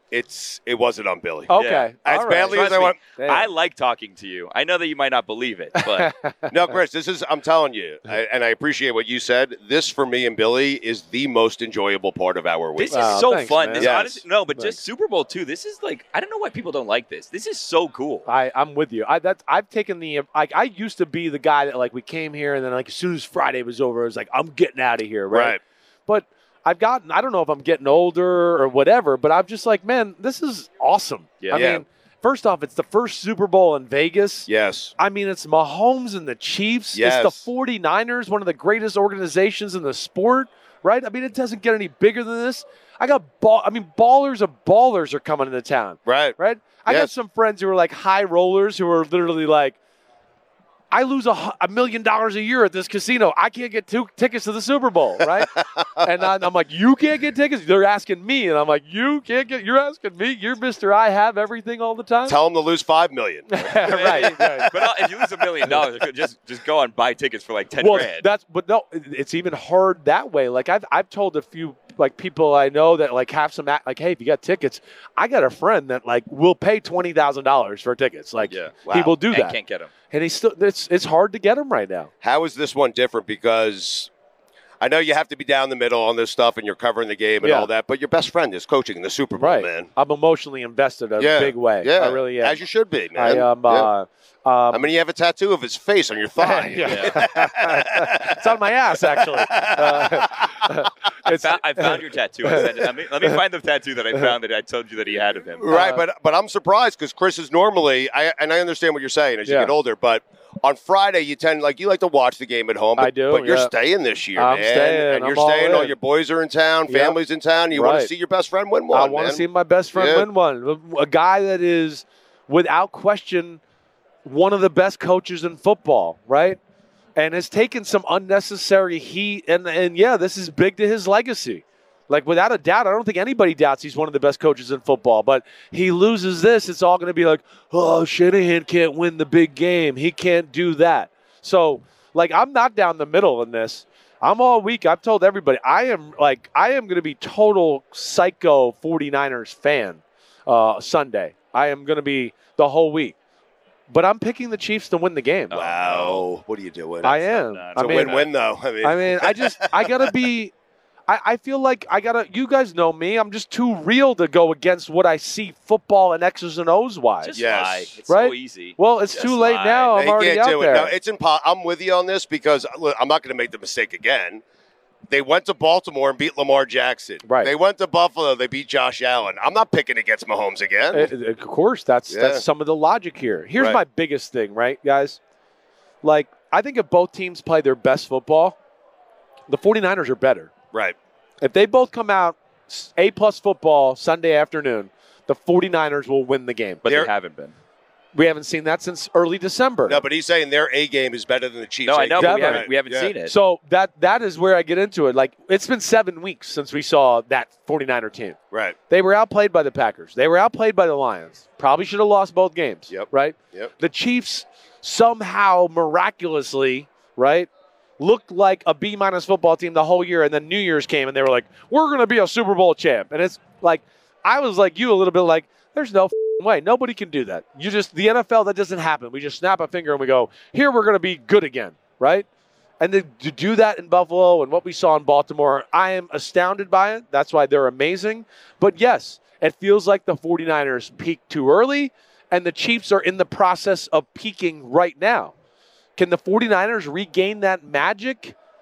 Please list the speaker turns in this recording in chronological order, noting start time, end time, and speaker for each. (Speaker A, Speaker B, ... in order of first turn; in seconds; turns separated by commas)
Speaker A: 0.1-3.0, Speaker B: 1.5-3.5, Speaker C: 1.6-1.9, Speaker C: 2.5-6.1, Speaker B: 5.8-6.5, Speaker A: 6.5-13.3, Speaker C: 12.8-18.3, Speaker B: 12.9-14.8, Speaker A: 13.8-14.2, Speaker B: 18.3-49.8, Speaker A: 25.3-25.6, Speaker A: 31.5-31.8, Speaker A: 34.5-34.9, Speaker A: 36.9-37.5, Speaker A: 46.1-47.1, Speaker B: 50.9-62.4, Speaker A: 62.3-64.9, Speaker B: 63.5-64.7, Speaker C: 64.0-68.3, Speaker B: 67.8-79.6, Speaker C: 78.5-78.8, Speaker A: 78.8-79.1, Speaker C: 79.3-79.9, Speaker B: 80.1-82.1, Speaker A: 82.2-84.1, Speaker A: 84.8-89.9, Speaker B: 87.4-87.7, Speaker B: 89.4-92.6, Speaker A: 91.2-93.9, Speaker B: 93.2-94.9, Speaker A: 94.7-98.4, Speaker B: 96.4-102.6, Speaker C: 96.9-97.2, Speaker A: 99.1-100.5, Speaker C: 101.3-105.7, Speaker A: 105.6-120.3, Speaker B: 105.7-106.0, Speaker B: 109.5-109.7, Speaker B: 113.0-113.7, Speaker B: 114.3-115.9, Speaker B: 116.9-117.2, Speaker B: 117.7-118.1, Speaker B: 118.9-123.6, Speaker B: 124.2-126.6, Speaker B: 127.2-153.2, Speaker B: 153.9-155.6, Speaker C: 155.5-156.2, Speaker A: 155.5-159.9, Speaker B: 157.0-158.2, Speaker C: 157.4-158.3, Speaker B: 158.8-160.5, Speaker B: 161.1-167.4, Speaker C: 167.2-170.0, Speaker A: 167.3-167.9, Speaker B: 168.1-170.9, Speaker A: 169.9-174.4, Speaker A: 175.1-181.1, Speaker B: 177.2-177.5, Speaker B: 180.9-185.2, Speaker A: 182.1-182.4, Speaker B: 186.0-188.6, Speaker B: 189.5-190.5, Speaker B: 191.4-196.8, Speaker C: 196.8-197.5, Speaker A: 196.9-197.1, Speaker B: 198.1-200.0, Speaker A: 199.9-203.1, Speaker C: 201.9-203.3, Speaker B: 202.2-202.7, Speaker B: 203.3-208.4, Speaker A: 208.5-208.8, Speaker B: 208.9-232.3, Speaker A: 212.9-213.7, Speaker B: 232.8-245.3, Speaker B: 246.0-248.3